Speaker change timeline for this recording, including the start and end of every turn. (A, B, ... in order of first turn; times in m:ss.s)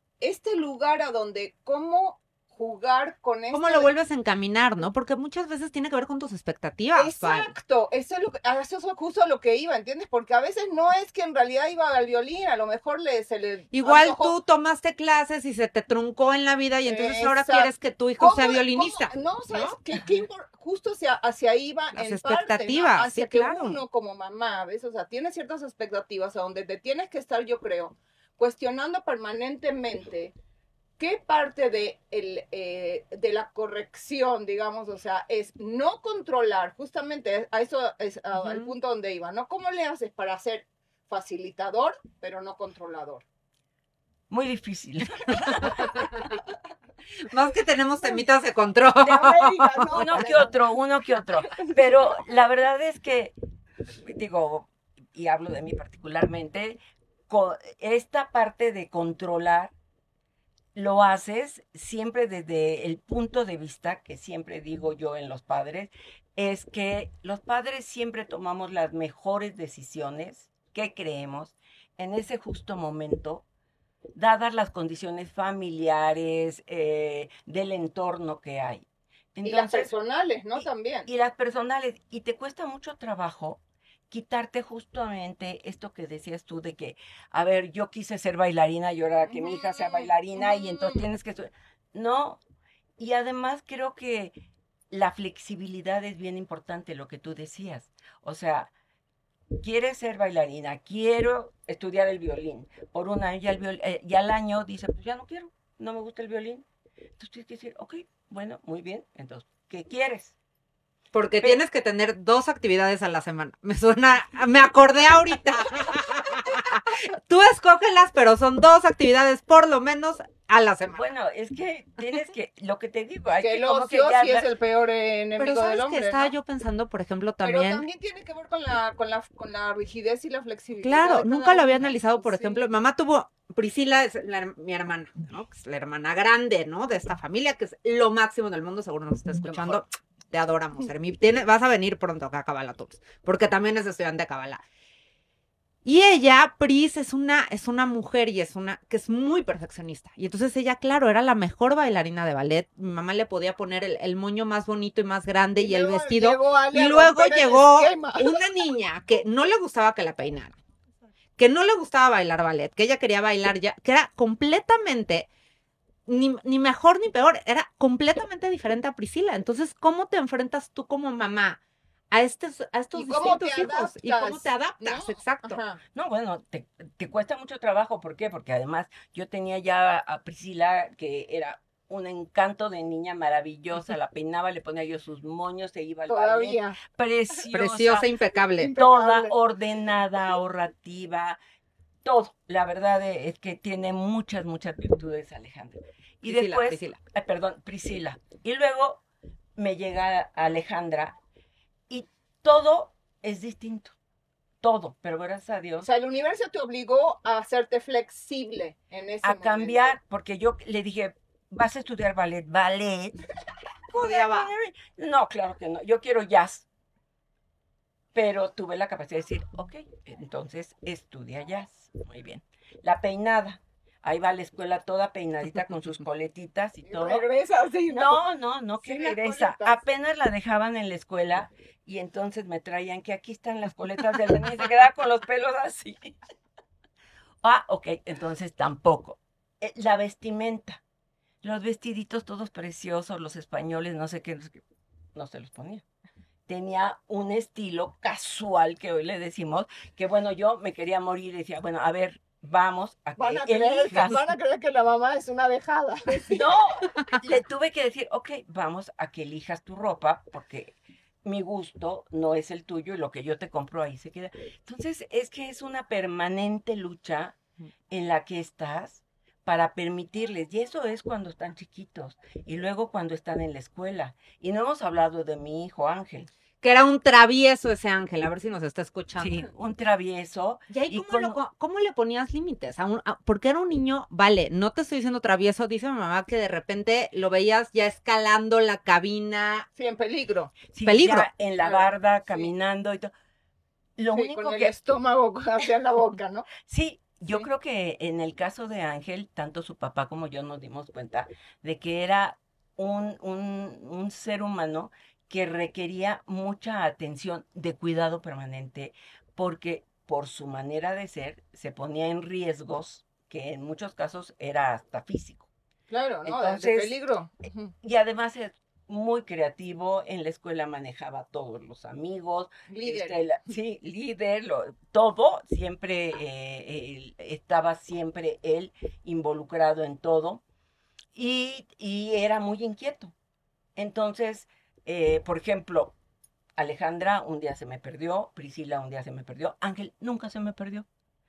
0:00.2-0:03.9 A
0:03.5-0:07.5 B
0:06.9-0:14.4 A
0:13.7-0:19.8 B
0:16.8-0:30.4 A
0:22.0-0:23.8 B
0:31.0-0:43.2 A
0:38.4-0:38.7 B
0:44.3-0:46.0 C
0:45.8-0:46.4 B
0:47.2-0:50.4 B
0:49.0-0:50.6 A
0:49.9-0:53.4 C
0:51.2-0:52.0 A
0:54.0-0:56.8 C
0:57.3-0:59.7 C
1:00.8-1:13.4 C
1:14.2-1:20.0 C
1:19.4-1:21.1 A
1:20.6-1:32.4 C
1:29.3-1:31.0 A
1:33.0-1:34.4 C
1:34.9-1:38.7 C
1:39.6-1:46.6 C
1:47.2-1:50.4 C
1:51.1-2:01.1 B
2:00.9-2:04.5 C
2:03.4-2:06.3 A
2:05.4-2:07.8 B
2:07.4-2:12.6 A
2:10.8-2:24.6 B
2:19.4-2:19.8 A
2:25.8-2:40.6 B
2:35.6-2:38.3 A
2:41.4-2:45.3 B
2:46.1-2:51.6 B
2:52.1-2:55.6 B
2:52.9-2:55.8 A
2:55.9-3:08.1 C
3:06.1-3:06.8 A
3:07.5-3:08.8 B
3:08.6-3:09.3 A
3:08.7-3:11.4 C
3:12.0-3:19.0 C
3:16.2-3:17.0 B
3:19.6-3:21.2 C
3:21.9-3:24.0 C
3:24.6-3:25.9 C
3:25.8-3:30.0 A
3:29.2-3:33.2 C
3:33.9-3:36.7 C
3:33.9-3:34.5 B
3:38.1-3:47.2 C
3:46.9-3:48.2 A
3:47.9-3:56.2 C
3:48.8-3:49.8 A
3:57.4-4:00.8 C
4:01.4-4:04.6 C
4:05.2-4:05.8 C
4:06.5-4:14.3 C
4:13.2-4:16.4 A
4:16.2-4:27.4 C
4:27.9-4:36.3 C
4:36.6-4:39.4 B
4:39.2-4:41.4 C
4:40.7-4:49.7 B
4:49.8-4:50.6 A
4:50.7-4:53.1 C
4:50.8-4:51.3 B
4:51.6-4:52.5 A
4:54.0-4:54.7 C
4:54.1-4:56.5 A
4:56.6-5:15.5 C
5:15.9-5:17.7 A
5:16.2-5:17.0 C
5:17.8-5:30.4 C
5:22.7-5:23.2 A
5:31.2-5:33.1 C
5:33.8-5:36.0 C
5:36.6-5:40.9 C